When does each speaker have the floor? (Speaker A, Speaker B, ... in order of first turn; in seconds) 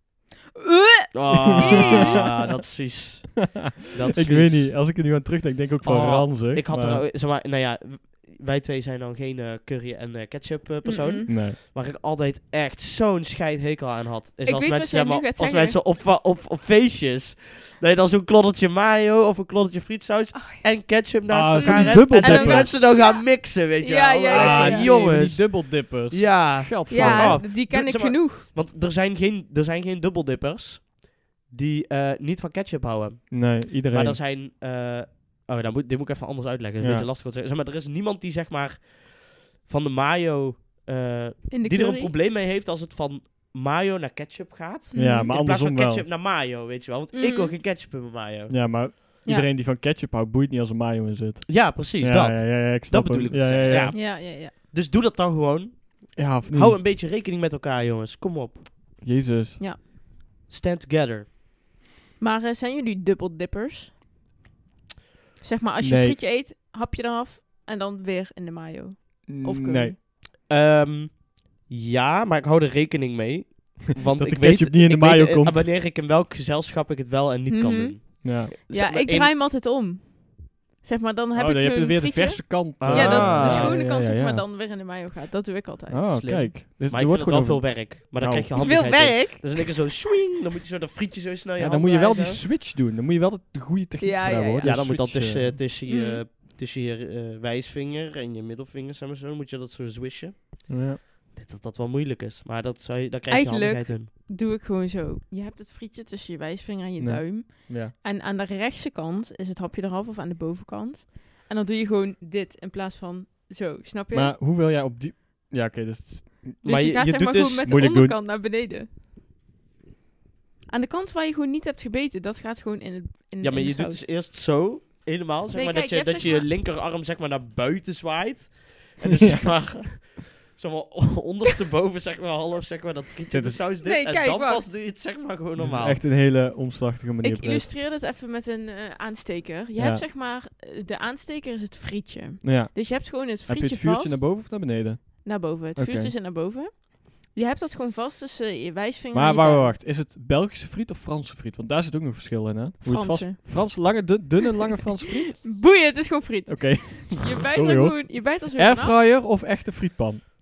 Speaker A: 0.6-2.3, 10.8-11.3, 14.4-15.8, 20.3-20.6, 21.6-24.9, 26.9-28.4, 41.5-42.1, 44.9-45.3, 47.1-47.5, 53.9-54.5, 62.2-63.9, 65.4-70.0, 77.5-86.3, 88.6-89.7, 94.0-94.9, 95.9-96.2, 103.3-114.3, 116.6-118.9, 120.7-124.0, 125.5-126.5, 133.8-134.7, 137.2-144.3, 145.2-149.7, 152.8-154.2, 155.4-158.9
Speaker B: 1.1-4.8, 5.8-48.5, 51.5-58.6, 60.5-61.3, 70.5-79.3, 82.8-83.8, 86.1-92.4, 94.6-104.1, 116.6-117.7, 123.4-136.0
Speaker C: 1.6-2.2, 3.5-7.0, 11.3-11.6, 21.3-22.8, 24.3-27.4, 33.3-34.2, 36.8-37.1, 44.9-46.0, 48.5-54.0, 56.1-56.8, 59.0-59.6, 65.8-66.2, 69.3-69.9, 74.1-75.7, 78.2-78.5, 81.3-84.4, 85.9-89.1, 91.6-95.6, 100.7-101.0, 107.0-107.9, 114.1-116.6, 117.7-118.2, 129.2-130.0, 133.3-133.6, 135.6-137.7, 139.8-140.0, 142.4-146.1, 149.1-155.3, 156.4-160.2